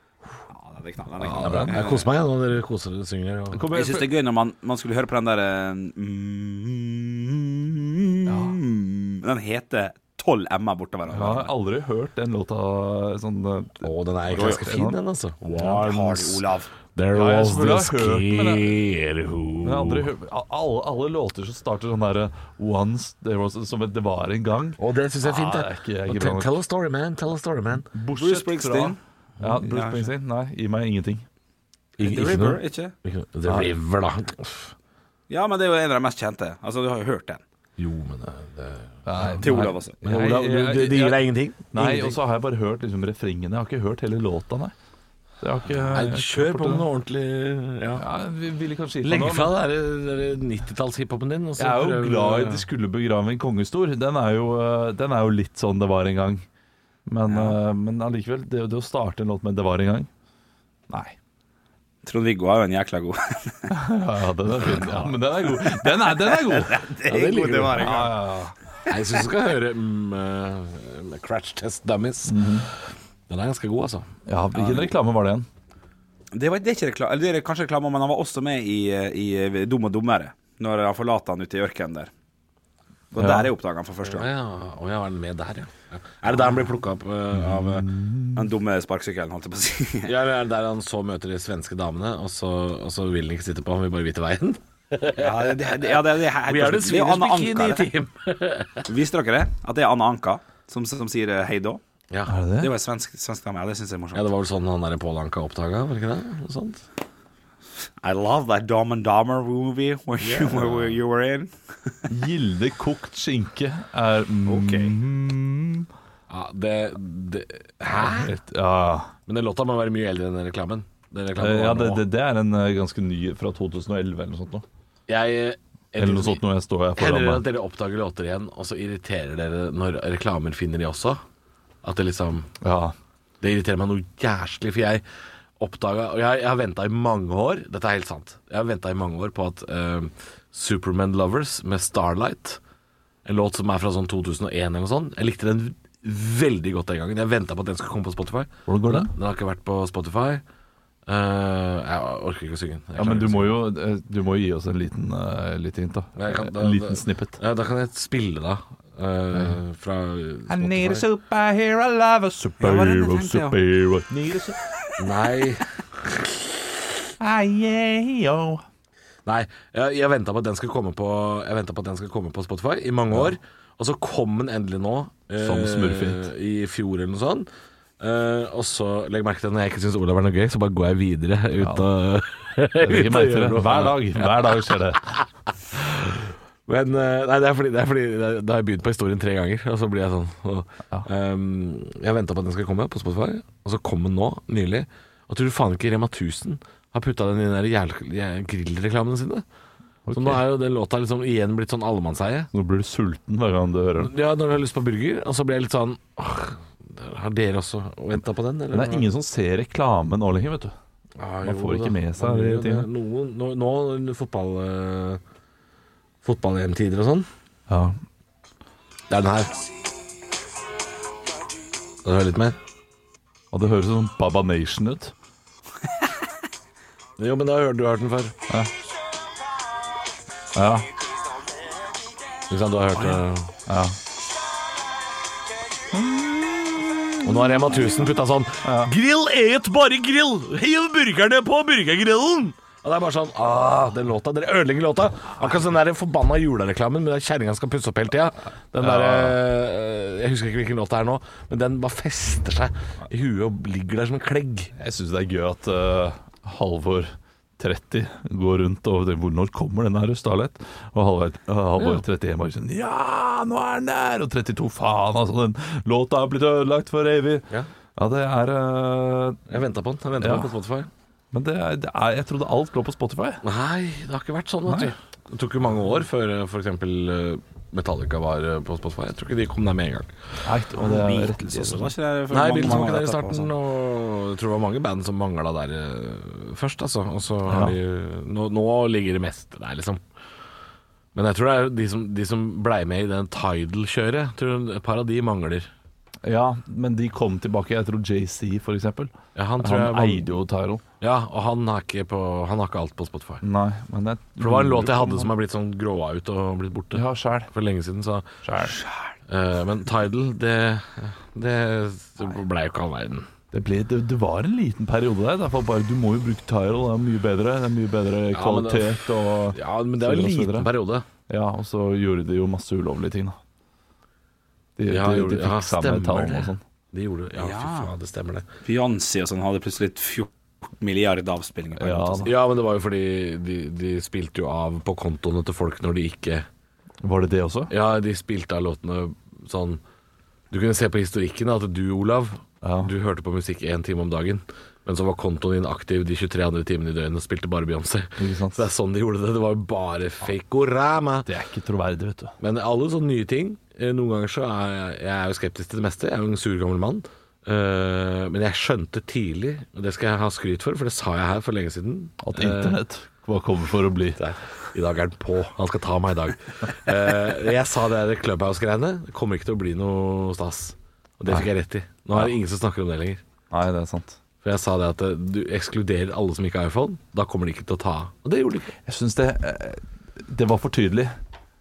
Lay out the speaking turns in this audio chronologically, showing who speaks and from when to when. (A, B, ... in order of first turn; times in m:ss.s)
0:00.5-0:02.0 A
0:01.2-0:03.6 B
0:01.4-0:01.8 C
0:03.5-0:04.1 C
0:03.7-0:11.5 A
0:08.3-0:08.6 C
0:11.1-0:15.0 C
0:13.8-0:16.4 B
0:14.3-0:14.6 A
0:15.4-0:16.7 A
0:16.9-0:20.1 B
0:17.1-0:18.7 C
0:19.6-0:26.6 C
0:24.8-0:27.9 B
0:27.9-0:31.2 C
0:28.2-0:29.0 A
0:29.5-0:30.1 A
0:32.0-0:34.7 B
0:32.0-0:32.9 A
0:33.4-0:33.7 C
0:35.3-0:37.4 A
0:37.8-0:39.4 B
0:39.0-0:41.2 C
0:39.4-0:39.9 A
0:40.0-0:42.2 B
0:41.7-0:44.7 C
0:45.4-0:46.8 C
0:45.7-0:48.0 B
0:48.0-0:49.5 C
0:49.0-0:52.6 B
0:51.6-0:56.4 C
0:57.1-1:00.1 C
0:57.3-0:57.6 A
1:00.9-1:01.1 C
1:02.0-1:03.7 A
1:03.7-1:06.8 C
1:04.7-1:08.1 A
1:07.0-1:08.1 B
1:07.8-1:08.5 C
1:08.8-1:12.7 B
1:12.3-1:12.7 C
1:13.3-1:14.0 B
1:14.3-1:15.5 C
1:16.3-1:22.1 A
1:23.1-1:24.3 A
1:23.2-1:23.5 C
1:24.0-1:27.8 B
1:27.3-1:28.5 C
1:28.3-1:30.1 A
1:30.0-1:38.9 B
1:35.2-1:37.9 A
1:38.9-1:41.8 A
1:42.3-1:42.7 C
1:42.6-1:44.3 A
1:44.1-1:46.8 B
1:48.0-1:52.0 A
1:50.2-1:51.0 B
1:52.1-1:55.9 C
1:54.5-1:54.9 A
1:56.3-1:58.3 B
1:57.9-1:59.1 C
1:59.3-2:02.0 B
2:01.4-2:04.6 C
2:05.1-2:06.4 B
2:06.0-2:07.4 C
2:07.0-2:11.2 B
2:11.8-2:12.5 B
2:12.6-2:12.9 C
2:13.4-2:15.0 B
2:15.6-2:22.6 B
2:23.2-2:30.4 B
2:28.7-2:29.1 C
2:31.1-2:33.6 B
2:33.0-2:37.4 C
2:36.1-2:41.1 B
2:40.5-2:44.6 C
2:42.6-2:43.6 A
2:45.0-2:46.4 B
2:47.2-2:48.6 C
2:49.2-2:57.5 B
2:55.4-2:56.3 C
2:58.0-3:19.4 B
3:01.6-3:01.9 C
3:02.8-3:05.1 C
3:20.0-3:20.4 C
3:20.1-3:22.5 B
3:22.5-3:24.1 C
3:24.0-3:29.1 B
3:28.7-3:30.7 C
3:31.2-3:35.2 B
3:31.4-3:32.9 C
3:36.2-3:37.3 B
3:37.7-3:38.0 C
3:39.1-3:39.5 B
3:42.0-3:42.6 B
3:43.5-3:45.1 C
3:47.2-3:48.4 B
3:50.5-3:50.9 C
3:52.5-3:53.5 B
3:53.7-3:54.0 C
3:55.9-3:57.8 C
3:57.2-4:14.7 B
3:58.6-3:58.9 C
4:08.8-4:09.4 C
4:14.8-4:29.5 C
4:29.5-4:30.9 B
4:30.2-4:30.5 C
4:31.3-4:33.4 C
4:33.4-4:40.1 B
4:34.7-4:34.9 C
4:40.4-4:41.9 C
4:40.8-4:43.5 A
4:42.3-4:50.0 B
4:47.5-4:47.7 C
4:51.1-4:55.7 B
4:56.2-5:00.8 C
4:59.3-5:00.4 B
5:01.0-5:03.4 B
5:03.4-5:05.3 C
5:04.4-5:08.3 B
5:06.9-5:07.5 C
5:08.4-5:08.8 C
5:09.3-5:13.3 B
5:13.5-5:20.7 C
5:18.3-5:21.0 B
5:21.3-5:23.4 C
5:24.8-5:26.6 C
5:24.9-5:28.5 B
5:27.4-5:27.9 A
5:28.6-5:32.3 A
5:31.8-5:32.3 C
5:32.2-5:36.5 B
5:37.0-5:37.7 C
5:37.7-5:39.8 B
5:40.5-5:51.3 B
5:42.6-5:42.9 C
5:48.2-5:48.7 C
5:51.2-5:52.3 C
5:52.4-6:02.8 B
6:02.2-6:04.2 C
6:04.2-6:13.2 B
6:13.5-6:14.2 C
6:14.4-6:18.7 B
6:18.9-6:21.2 C